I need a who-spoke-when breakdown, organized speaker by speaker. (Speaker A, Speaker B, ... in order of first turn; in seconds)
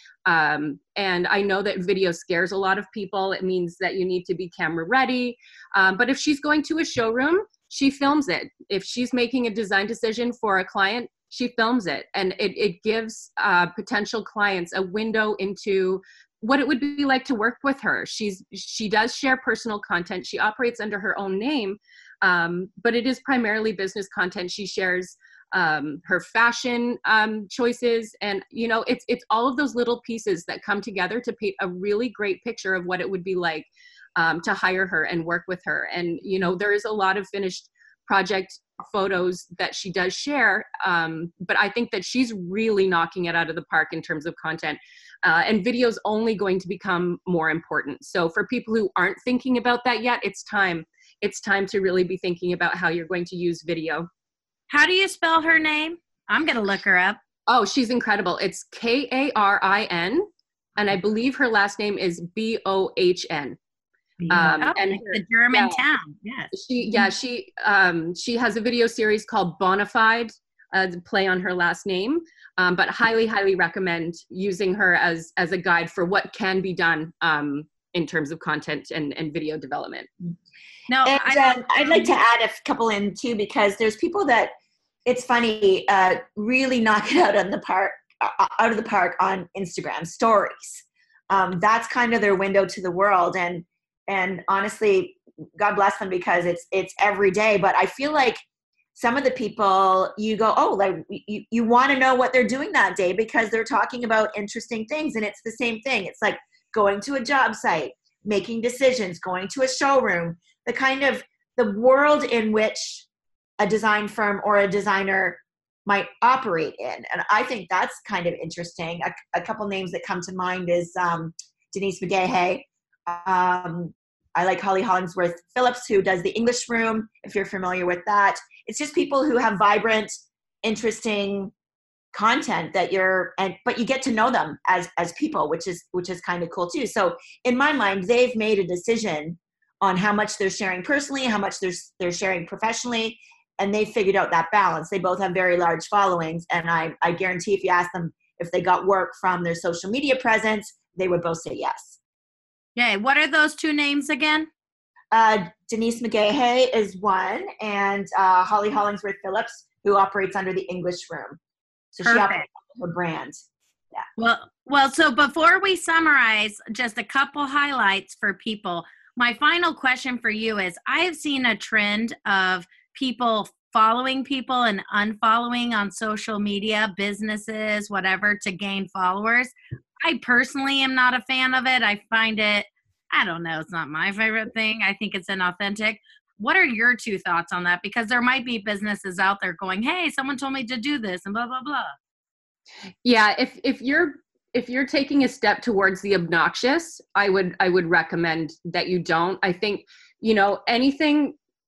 Speaker A: 0.2-54.1, 57.5-63.6, 64.3-65.8, 66.5-80.1, 193.0-201.4
Speaker B: 54.7-57.2, 64.2-67.1, 80.9-82.1, 152.8-154.5, 162.0-162.4, 164.2-191.9
Speaker C: 81.0-84.5, 85.0-98.4, 98.9-113.0, 113.6-131.5, 132.1-152.0, 155.1-161.4, 161.9-163.4